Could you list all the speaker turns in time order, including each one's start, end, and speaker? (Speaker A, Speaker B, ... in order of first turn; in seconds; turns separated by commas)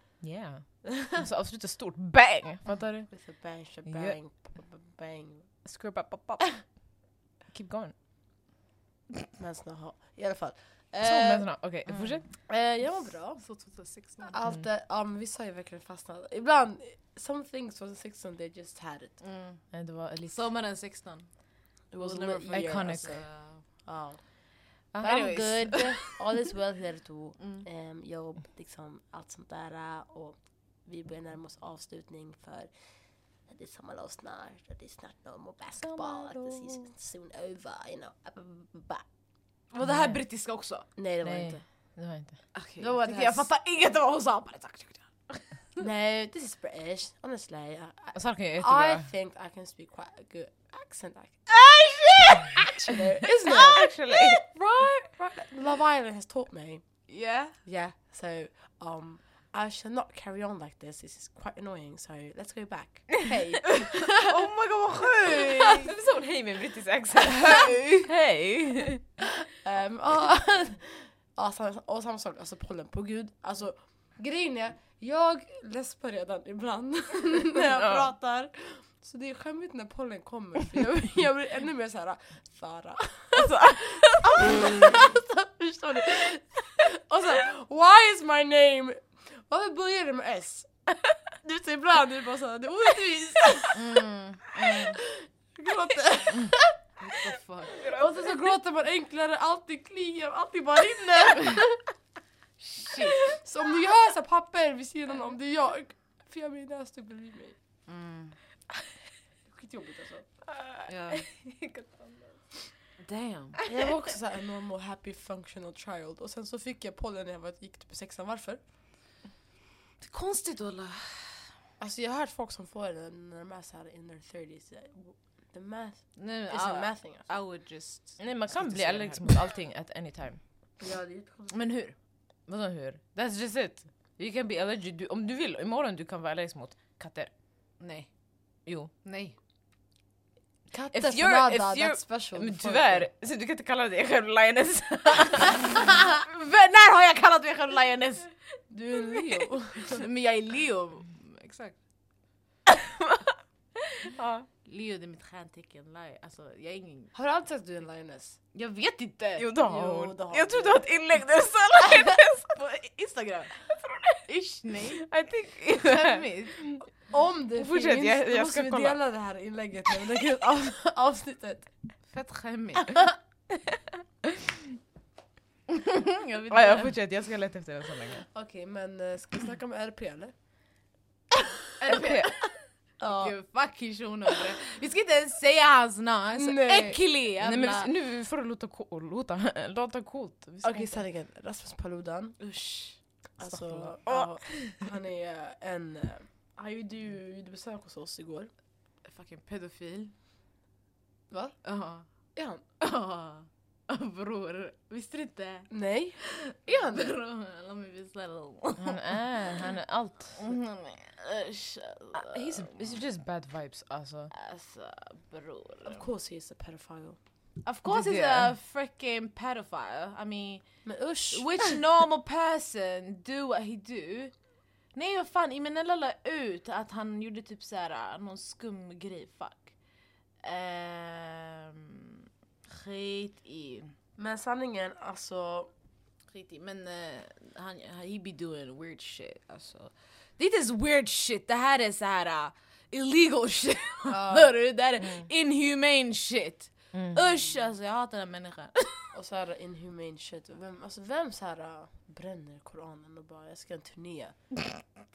Speaker A: 0.2-3.1, Speaker B: 3.1-5.5, Speaker A: 3.9-4.2, Speaker A: 5.6-7.9, Speaker B: 9.4-11.3, Speaker A: 11.0-12.3, Speaker C: 11.8-12.2, Speaker B: 12.5-13.4, Speaker C: 13.4-14.4, Speaker B: 14.3-19.2, Speaker C: 19.2-19.6, Speaker A: 19.7-20.5, Speaker C: 20.2-21.4, Speaker B: 21.9-32.7, Speaker C: 21.9-23.6, Speaker A: 22.5-23.2, Speaker A: 24.9-25.7, Speaker C: 25.1-26.1, Speaker C: 27.4-27.6, Speaker B: 33.4-39.0, Speaker A: 35.8-36.8, Speaker C: 39.7-40.9, Speaker A: 39.8-40.2, Speaker B: 41.0-41.6, Speaker A: 41.2-42.4, Speaker C: 42.5-45.7, Speaker B: 42.8-43.5, Speaker B: 45.8-53.9, Speaker A: 48.1-49.1, Speaker C: 52.2-52.6, Speaker A: 53.5-54.4, Speaker C: 53.6-54.4, Speaker B: 54.5-56.8, Speaker C: 57.1-57.6, Speaker B: 57.6-64.4, Speaker C: 63.7-65.9, Speaker A: 65.5-69.0, Speaker C: 67.2-68.1, Speaker B: 69.5-90.7, Speaker A: 77.7-78.1, Speaker A: 83.4-84.6, Speaker B: 91.4-94.0, Speaker C: 93.7-95.0, Speaker B: 94.6-96.6, Speaker C: 96.4-97.8, Speaker A: 97.8-98.3, Speaker B: 97.8-101.9, Speaker C: 102.6-103.3, Speaker B: 103.2-107.5, Speaker C: 107.9-108.4, Speaker B: 109.5-110.2, Speaker A: 110.5-112.2, Speaker C: 110.9-111.2, Speaker C: 113.0-113.6, Speaker B: 113.7-118.6, Speaker C: 120.0-121.5, Speaker B: 121.8-127.3, Speaker C: 126.2-129.3, Speaker A: 128.2-130.4, Speaker B: 130.8-131.6, Speaker C: 131.5-131.9, Speaker A: 132.5-137.3, Speaker C: 137.8-138.1, Speaker A: 138.7-138.9, Speaker C: 139.0-139.3, Speaker B: 140.7-143.1, Speaker A: 140.9-145.7, Speaker C: 145.4-148.3, Speaker B: 148.7-150.0, Speaker C: 149.8-151.8, Speaker A: 152.7-153.4, Speaker A: 154.0-154.5, Speaker C: 154.6-157.1, Speaker B: 157.1-158.4, Speaker C: 158.5-159.5, Speaker A: 159.4-162.5, Speaker B: 159.6-160.8, Speaker C: 161.8-165.1, Speaker A: 165.0-166.8, Speaker C: 165.7-166.8, Speaker B: 167.1-171.7, Speaker A: 167.6-169.0, Speaker C: 172.1-172.9, Speaker A: 173.5-174.5, Speaker C: 175.7-176.9, Speaker A: 176.5-178.2, Speaker B: 178.3-180.3, Speaker C: 181.8-182.4, Speaker A: 181.8-182.3, Speaker B: 183.0-183.3, Speaker C: 183.1-187.9, Speaker B: 186.3-187.0, Speaker A: 187.3-191.0, Speaker B: 190.6-192.4, Speaker C: 192.4-193.0, Speaker B: 193.4-198.5, Speaker A: 193.5-194.3, Speaker C: 199.0-200.1, Speaker B: 201.3-201.6, Speaker C: 201.6-202.1, Speaker B: 202.3-202.6, Speaker C: 202.8-209.7, Speaker B: 205.7-207.1, Speaker A: 208.8-210.5, Speaker C: 210.3-213.0, Speaker A: 212.1-214.3, Speaker C: 214.3-216.1, Speaker B: 215.8-217.2, Speaker C: 217.6-220.6, Speaker A: 217.8-218.5, Speaker B: 220.8-221.7, Speaker C: 221.3-224.3, Speaker C: 224.9-229.7, Speaker C: 230.4-233.9, Speaker B: 234.2-235.7, Speaker C: 236.3-249.1, Speaker B: 244.1-244.5, Speaker A: 246.9-247.2, Speaker B: 249.1-254.3